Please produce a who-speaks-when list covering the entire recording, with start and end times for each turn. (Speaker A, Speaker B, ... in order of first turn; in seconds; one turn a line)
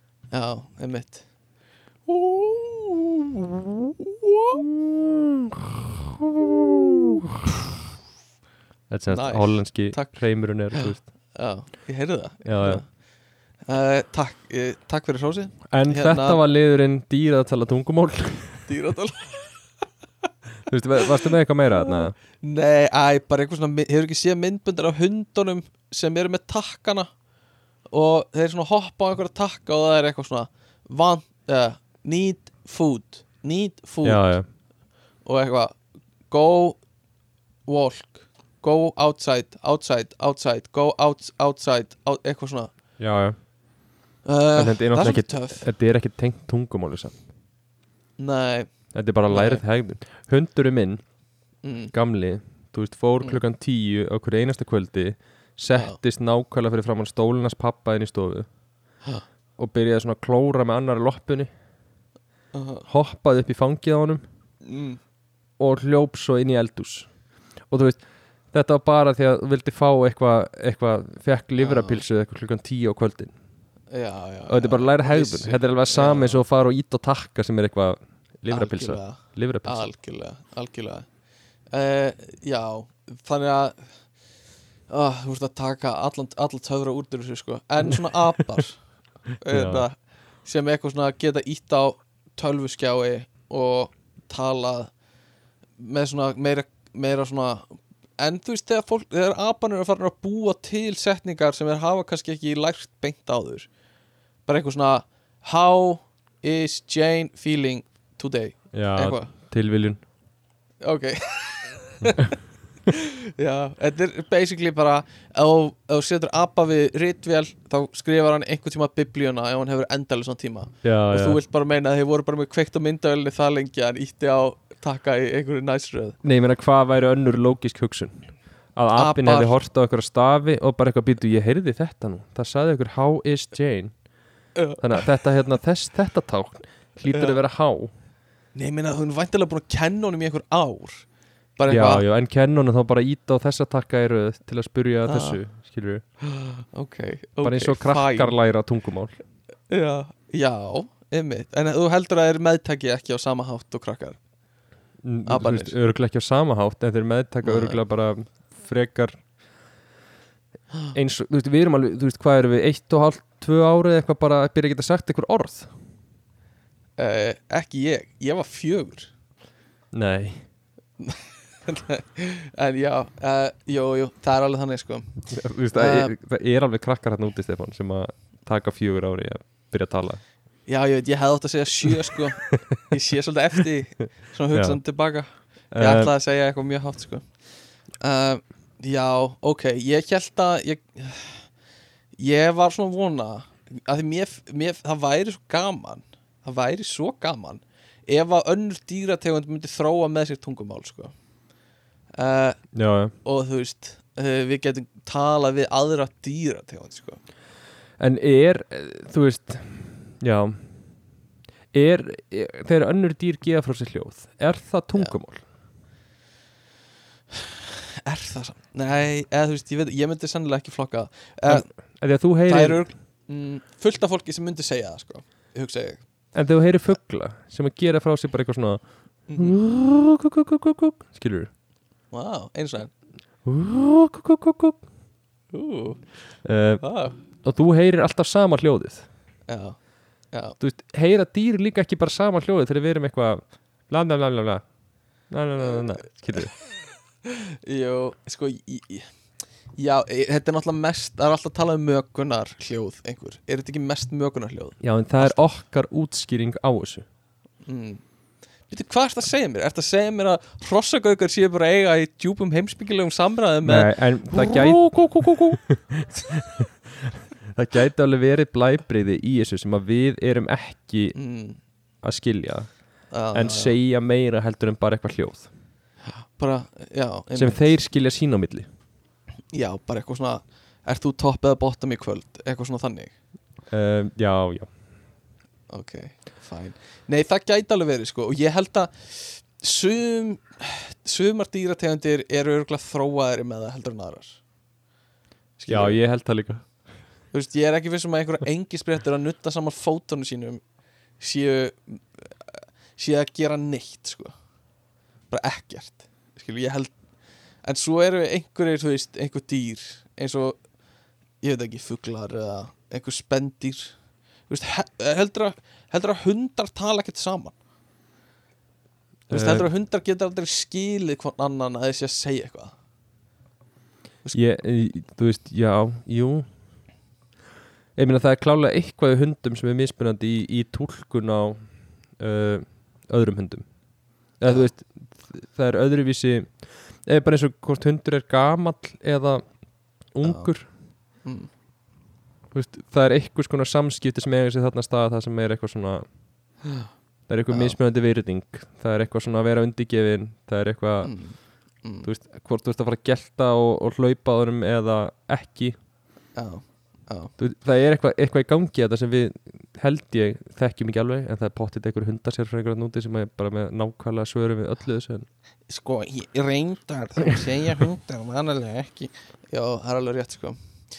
Speaker A: 0.3-1.2
Speaker A: 2.1-4.7
Speaker B: 4.8-7.4
Speaker B: 8.9-11.1
Speaker A: 9.1-10.2
Speaker A: 10.7-12.8
Speaker B: 12.4-12.8
Speaker A: 13.7-16.4
Speaker B: 15.7-18.7
Speaker A: 18.7-19.6
Speaker B: 20.7-22.1
Speaker A: 21.8-27.1
Speaker A: 27.9-34.2
Speaker B: 34.0-34.5
Speaker A: 35.2-35.8
Speaker A: 36.3-36.8
Speaker A: 37.7-42.7
Speaker B: 43.0-43.4
Speaker A: 44.2-45.7
Speaker B: 44.5-47.1
Speaker A: 48.2-48.7
Speaker B: 48.9-51.0
Speaker A: 49.3-49.6
Speaker A: 51.6-51.9
Speaker B: 51.9-58.5
Speaker A: 55.7-56.0
Speaker B: 59.6-61.5
Speaker A: 62.5-62.9
Speaker B: 62.9-64.2
Speaker A: 64.6-65.0
Speaker B: 65.6-67.1
Speaker B: 67.7-73.3
Speaker A: 71.6-72.0
Speaker A: 73.9-76.4
Speaker B: 74.5-79.9
Speaker A: 78.5-81.1
Speaker A: 81.7-83.9
Speaker A: 84.9-88.8
Speaker A: 89.4-94.9
Speaker B: 89.5-89.8
Speaker A: 95.8-103.7
Speaker A: 104.5-109.3
Speaker B: 108.7-110.0
Speaker A: 110.8-126.2
Speaker B: 120.8-121.4
Speaker B: 126.2-133.9
Speaker A: 128.9-129.6
Speaker A: 134.6-135.1
Speaker B: 134.8-137.9
Speaker A: 137.1-137.4
Speaker A: 138.6-141.1
Speaker A: 141.6-142.0
Speaker B: 141.7-146.0
Speaker A: 145.1-145.4
Speaker A: 146.2-148.4
Speaker B: 147.4-149.2
Speaker A: 149.7-154.2
Speaker B: 155.0-159.2
Speaker A: 155.3-155.8
Speaker A: 157.4-157.8
Speaker B: 160.9-165.7
Speaker A: 167.0-169.1
Speaker B: 169.9-170.4
Speaker A: 171.0-175.2
Speaker B: 175.3-180.2
Speaker A: 175.7-176.1
Speaker A: 180.7-187.3
Speaker B: 182.5-182.8
Speaker B: 184.5-184.8
Speaker B: 185.7-186.1
Speaker A: 188.0-191.5
Speaker A: 192.2-201.1
Speaker A: 202.2-202.6
Speaker B: 202.7-203.1
Speaker A: 203.2-207.2
Speaker B: 208.0-210.6
Speaker B: 211.7-215.4
Speaker A: 217.3-221.7
Speaker B: 221.5-222.8
Speaker A: 222.5-226.0
Speaker B: 226.3-228.8
Speaker A: 229.3-229.6
Speaker B: 229.4-231.5
Speaker A: 232.1-232.9
Speaker B: 233.4-234.8
Speaker A: 235.5-236.0
Speaker B: 236.4-236.8
Speaker A: 236.8-237.2
Speaker B: 237.4-239.1
Speaker A: 239.5-239.8
Speaker A: 240.3-240.6
Speaker B: 240.6-244.6
Speaker B: 245.3-246.5
Speaker A: 247.2-249.1
Speaker A: 249.8-255.4
Speaker B: 254.8-257.1
Speaker A: 257.6-258.0
Speaker A: 258.7-265.6
Speaker B: 263.6-271.2
Speaker A: 271.1-271.6
Speaker B: 272.0-272.7
Speaker A: 273.1-273.8
Speaker B: 273.3-275.5
Speaker A: 276.1-277.6
Speaker B: 277.4-278.7
Speaker A: 279.5-283.1
Speaker B: 283.7-284.7
Speaker A: 285.7-294.4
Speaker A: 295.6-296.0
Speaker B: 295.7-296.6
Speaker A: 297.3-300.6
Speaker A: 301.2-304.3
Speaker A: 305.3-306.9
Speaker A: 307.6-310.6
Speaker A: 311.4-313.9
Speaker A: 314.5-317.6
Speaker B: 319.3-319.7
Speaker A: 319.3-322.7
Speaker B: 324.3-326.5
Speaker B: 328.0-333.7
Speaker B: 334.4-339.4
Speaker B: 340.1-340.7
Speaker A: 340.2-340.5
Speaker A: 341.2-341.5
Speaker B: 342.5-346.1
Speaker A: 346.6-346.9
Speaker B: 347.3-351.1
Speaker A: 347.5-347.8
Speaker A: 351.0-352.1
Speaker B: 352.0-355.8
Speaker A: 356.4-357.3
Speaker B: 357.4-365.3
Speaker A: 365.7-370.6